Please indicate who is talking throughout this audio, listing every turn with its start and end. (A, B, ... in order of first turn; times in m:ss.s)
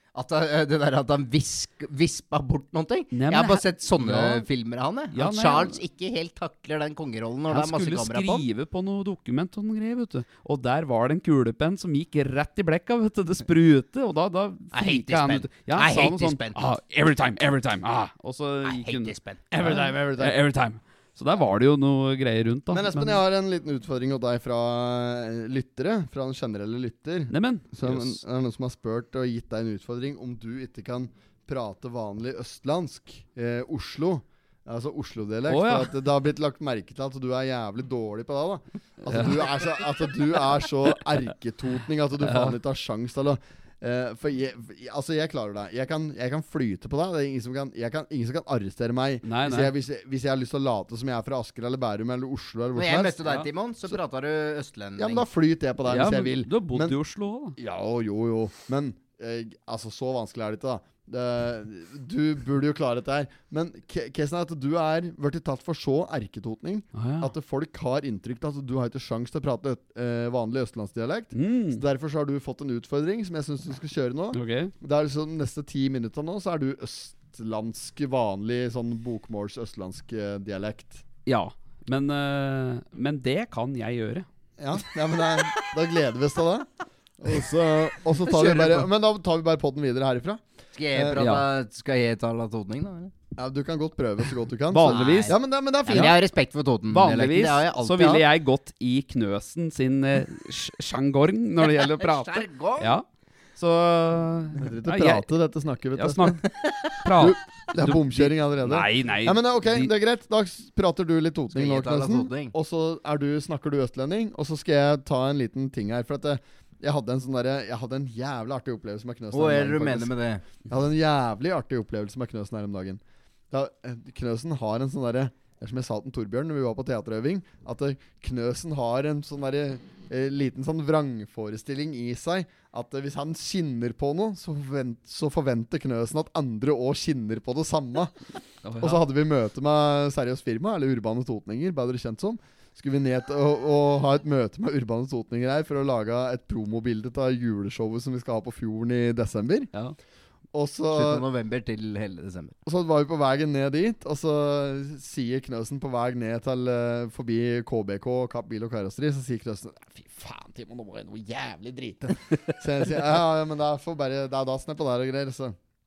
0:00.1-0:08.4 A
0:03.1-0:04.4 B
0:05.1-0:05.8 B
0:07.5-0:23.2 B
0:14.7-0:16.7 A
0:18.6-0:19.4 A
0:19.5-0:20.3 C
0:22.7-0:53.2 C
0:27.3-0:28.2 B
0:35.5-0:35.9 B
0:39.0-0:39.5 B
0:42.2-0:42.6 B
0:49.2-0:49.7 B
0:52.7-0:55.2 A
0:55.0-0:56.9 C
0:55.9-0:57.6 B
0:57.6-1:21.0 C
1:06.9-1:07.3 B
1:11.3-1:11.8 B
1:14.3-1:14.7 B
1:21.2-1:24.2 B
1:24.6-1:30.4 C
1:28.4-1:28.8 B
1:30.7-1:33.1 A
1:30.9-1:31.2 C
1:31.2-1:31.4 B
1:33.4-1:36.2 C
1:34.7-1:35.4 B
1:34.8-1:38.2 A
1:35.9-1:36.2 B
1:36.9-1:43.0 B
1:41.6-1:42.9 A
1:43.6-1:45.2 B
1:44.6-1:46.4 C
1:45.9-1:46.4 B
1:47.0-1:49.9 B
1:47.2-2:00.1 C
1:51.5-1:52.5 A
1:59.3-2:00.4 A
2:00.7-2:18.1 C
2:18.6-2:19.0 B
2:18.8-2:29.7 C
2:30.5-2:31.2 C
2:30.9-2:32.5 A
2:32.6-2:45.6 C